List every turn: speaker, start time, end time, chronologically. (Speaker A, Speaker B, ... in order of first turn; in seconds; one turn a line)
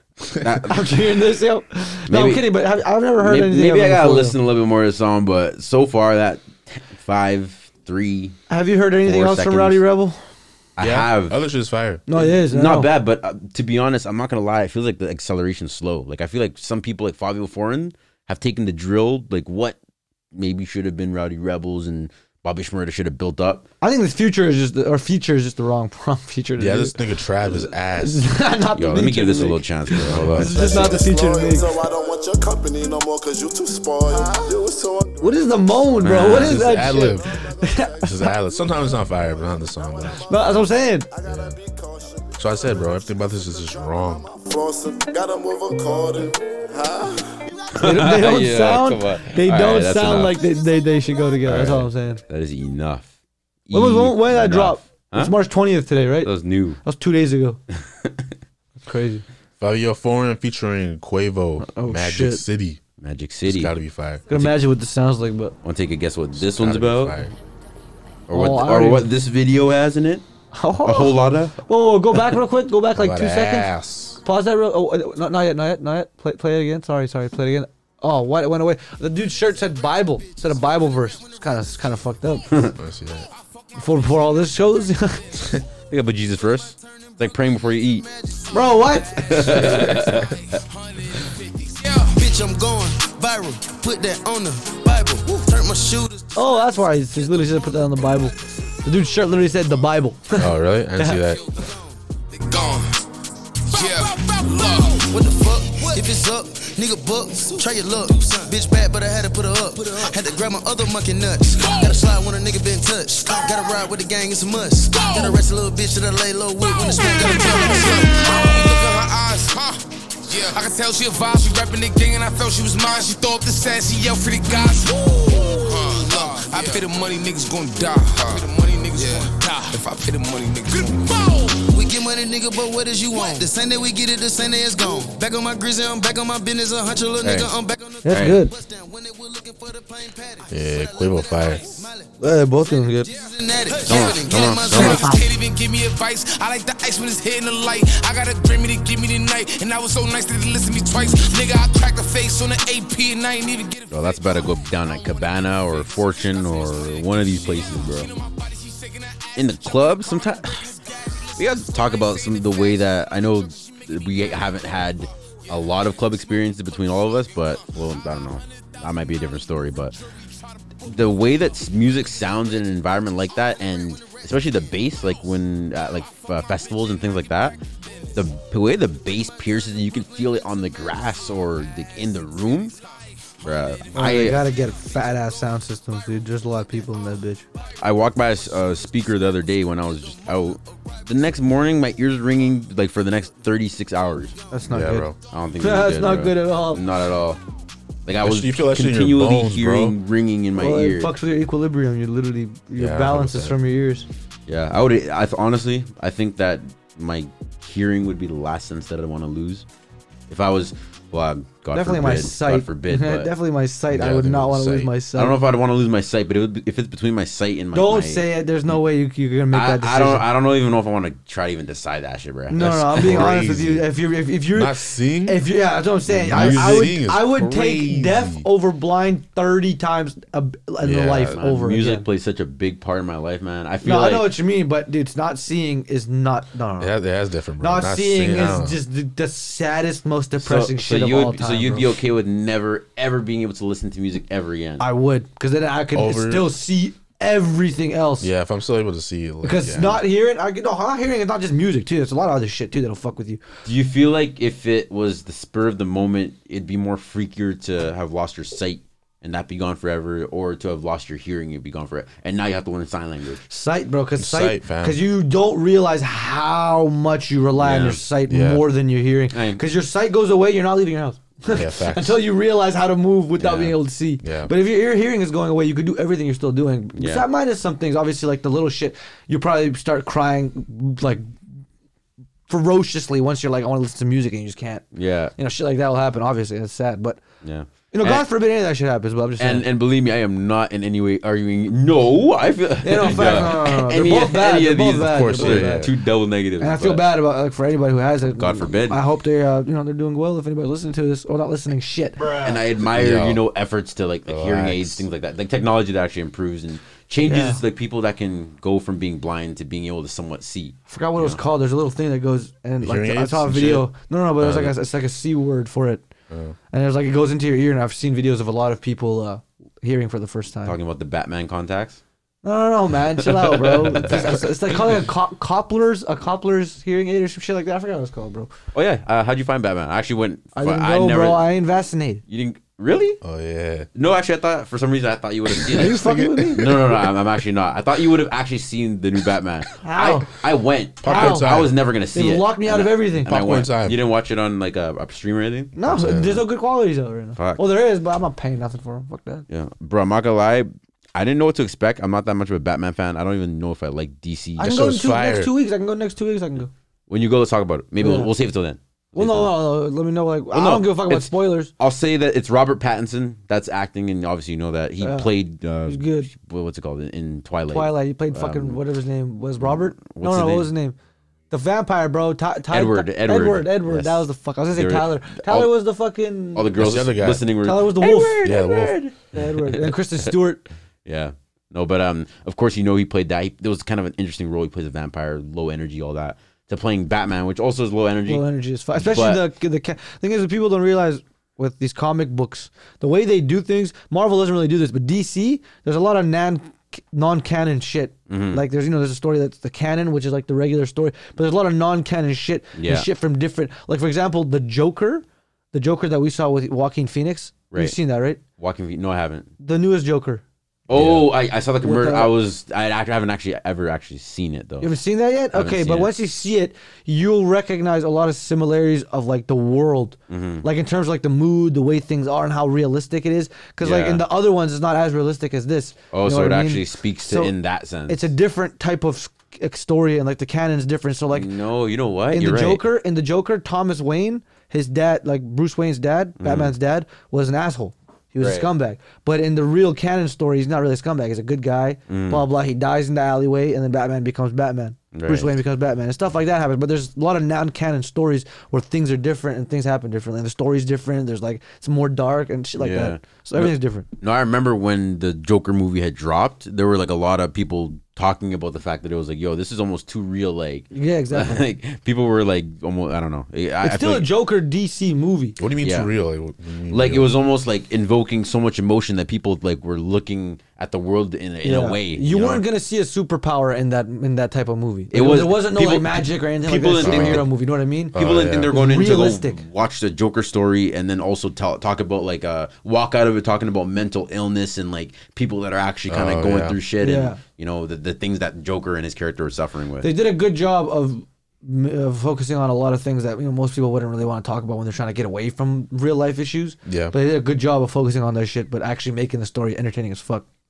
Speaker A: 0.3-1.2
Speaker B: 0.7-4.4
Speaker A: 2.1-2.5
Speaker A: 3.2-8.4
Speaker B: 8.5-10.2
Speaker A: 9.0-9.8
Speaker A: 10.8-11.4
Speaker C: 10.8-12.1
Speaker B: 12.1-12.9
Speaker A: 12.2-19.8
Speaker A: 20.3-23.7
Speaker B: 23.8-31.8
Speaker C: 26.6-28.3
Speaker A: 28.7-30.5
Speaker C: 30.1-31.1
Speaker D: 30.4-47.5
Speaker B: 35.2-38.3
Speaker A: 36.0-36.6
Speaker C: 36.3-37.3
Speaker C: 38.0-40.2
Speaker B: 40.3-41.1
Speaker C: 41.2-41.6
Speaker C: 42.4-44.3
Speaker A: 47.8-50.4
Speaker B: 47.8-52.2
Speaker A: 51.5-53.1
Speaker A: 53.7-55.4
Speaker B: 53.7-56.3
Speaker A: 56.2-56.8
Speaker B: 56.8-57.6
Speaker A: 57.7-58.3
Speaker B: 58.8-59.2
Speaker C: 59.6-62.8
Speaker B: 61.6-62.4
Speaker A: 63.0-63.8
Speaker C: 63.5-64.3
Speaker B: 64.3-65.5
Speaker A: 65.6-67.3
Speaker C: 66.4-67.3
Speaker A: 68.3-70.3
Speaker B: 68.3-69.1
Speaker B: 70.5-73.7
Speaker A: 70.8-71.6
Speaker C: 73.0-74.2
Speaker B: 74.2-82.6
Speaker A: 82.5-82.7
Speaker C: 82.8-83.3
Speaker B: 83.8-85.3
Speaker A: 85.9-88.1
Speaker E: 88.1-88.4
Speaker B: 88.5-90.1
Speaker A: 89.1-90.4
Speaker E: 92.0-96.4
Speaker B: 96.3-101.2
Speaker C: 100.4-101.5
Speaker E: 105.0-118.7
Speaker F: 118.6-119.3
Speaker F: 125.8-130.9
Speaker E: 126.0-126.4
Speaker E: 128.9-129.3
Speaker E: 131.6-145.2
Speaker A: 137.2-137.5
Speaker B: 138.0-138.5
Speaker A: 138.1-138.4
Speaker C: 140.5-141.7
Speaker B: 142.2-143.1
Speaker A: 143.8-145.1
Speaker A: 153.9-158.2
Speaker A: 159.3-160.8
Speaker A: 161.4-170.0
Speaker A: 170.8-177.6
Speaker A: 178.2-182.8
Speaker A: 183.4-184.4
Speaker B: 183.9-187.4
Speaker A: 187.8-194.4
Speaker B: 194.5-196.8
Speaker C: 194.7-195.2
Speaker A: 195.3-197.4
Speaker A: 198.1-201.1
Speaker C: 198.2-200.0
Speaker B: 200.6-204.1
Speaker C: 202.8-203.6
Speaker A: 204.5-209.7
Speaker A: 210.3-213.3
Speaker B: 211.7-215.4
Speaker C: 213.9-214.9
Speaker A: 215.1-218.3
Speaker B: 217.7-220.3
Speaker A: 219.5-223.3
Speaker B: 222.5-232.1
Speaker C: 222.6-223.9
Speaker C: 224.5-225.4
Speaker C: 226.1-228.5
Speaker A: 226.3-226.9
Speaker C: 230.8-231.4
Speaker A: 231.3-234.4
Speaker B: 233.8-236.9
Speaker C: 236.8-238.8
Speaker B: 237.6-241.9
Speaker A: 240.4-244.8
Speaker B: 244.8-248.3
Speaker C: 245.9-246.5
Speaker C: 248.2-250.0
Speaker B: 249.4-253.4
Speaker A: 253.7-263.4
Speaker B: 263.5-281.3
Speaker C: 264.2-265.0
Speaker A: 267.6-268.0
Speaker C: 268.3-268.7
Speaker A: 269.3-269.6
Speaker C: 271.5-272.2
Speaker A: 273.4-273.8
Speaker C: 274.2-274.5
Speaker A: 277.0-277.3
Speaker B: 282.5-284.8
Speaker A: 284.9-285.4
Speaker B: 285.4-287.2
Speaker A: 287.4-288.3
Speaker B: 287.9-289.7
Speaker A: 289.4-297.2
Speaker B: 292.8-295.9
Speaker C: 295.0-295.9
Speaker B: 296.6-302.4
Speaker A: 298.4-299.0
Speaker A: 302.3-311.4
Speaker C: 302.8-303.4
Speaker C: 304.3-305.0
Speaker B: 307.2-307.6
Speaker B: 310.9-316.1
Speaker C: 312.8-313.9
Speaker C: 314.4-314.7
Speaker C: 316.3-316.6
Speaker B: 316.7-320.8
Speaker A: 320.6-322.0
Speaker B: 322.4-328.5
Speaker A: 323.2-324.4
Speaker A: 328.7-331.5
Speaker B: 330.6-332.2
Speaker A: 332.3-333.2
Speaker C: 333.2-333.9
Speaker A: 333.9-346.3
Speaker B: 335.7-336.7
Speaker C: 335.8-336.8
Speaker B: 339.8-340.3
Speaker C: 341.0-341.8
Speaker B: 341.1-341.5
Speaker B: 342.1-343.3
Speaker C: 343.3-344.0
Speaker B: 345.8-349.4
Speaker C: 345.9-346.4
Speaker A: 347.4-347.7
Speaker A: 349.5-354.8
Speaker B: 354.6-356.7
Speaker C: 354.6-355.5
Speaker A: 357.1-359.6
Speaker B: 358.0-358.3
Speaker B: 359.1-361.7
Speaker A: 360.5-368.8
Speaker B: 365.0-365.3
Speaker B: 365.9-366.3
Speaker B: 367.7-371.0
Speaker A: 369.6-370.7
Speaker B: 371.5-376.7
Speaker A: 372.7-375.7
Speaker A: 376.6-380.4
Speaker C: 376.8-377.5
Speaker B: 377.6-380.6
Speaker C: 378.4-379.0
Speaker A: 381.1-389.5
Speaker B: 388.3-408.4
Speaker A: 398.3-398.6
Speaker A: 402.8-403.1
Speaker A: 408.6-409.5
Speaker B: 409.6-410.4
Speaker A: 410.9-415.0
Speaker C: 410.9-411.3
Speaker B: 411.8-412.3
Speaker B: 414.8-427.5
Speaker A: 415.5-416.1
Speaker A: 420.3-420.7
Speaker A: 423.8-424.3
Speaker A: 426.1-428.3
Speaker B: 428.1-431.5
Speaker A: 431.3-432.8
Speaker B: 432.3-454.1
Speaker A: 436.4-436.7
Speaker A: 438.4-438.7
Speaker A: 442.1-442.5
Speaker A: 445.1-445.6
Speaker A: 452.8-464.3
Speaker B: 460.9-461.6
Speaker B: 463.8-465.6
Speaker C: 465.6-467.3
Speaker A: 465.8-466.1
Speaker A: 466.9-472.6
Speaker B: 471.6-478.2
Speaker A: 475.1-477.5
Speaker C: 477.0-477.5
Speaker C: 478.1-478.7
Speaker A: 478.1-490.2
Speaker B: 478.7-479.6
Speaker C: 486.1-486.8
Speaker B: 487.0-487.4
Speaker B: 490.0-500.5
Speaker C: 496.9-497.1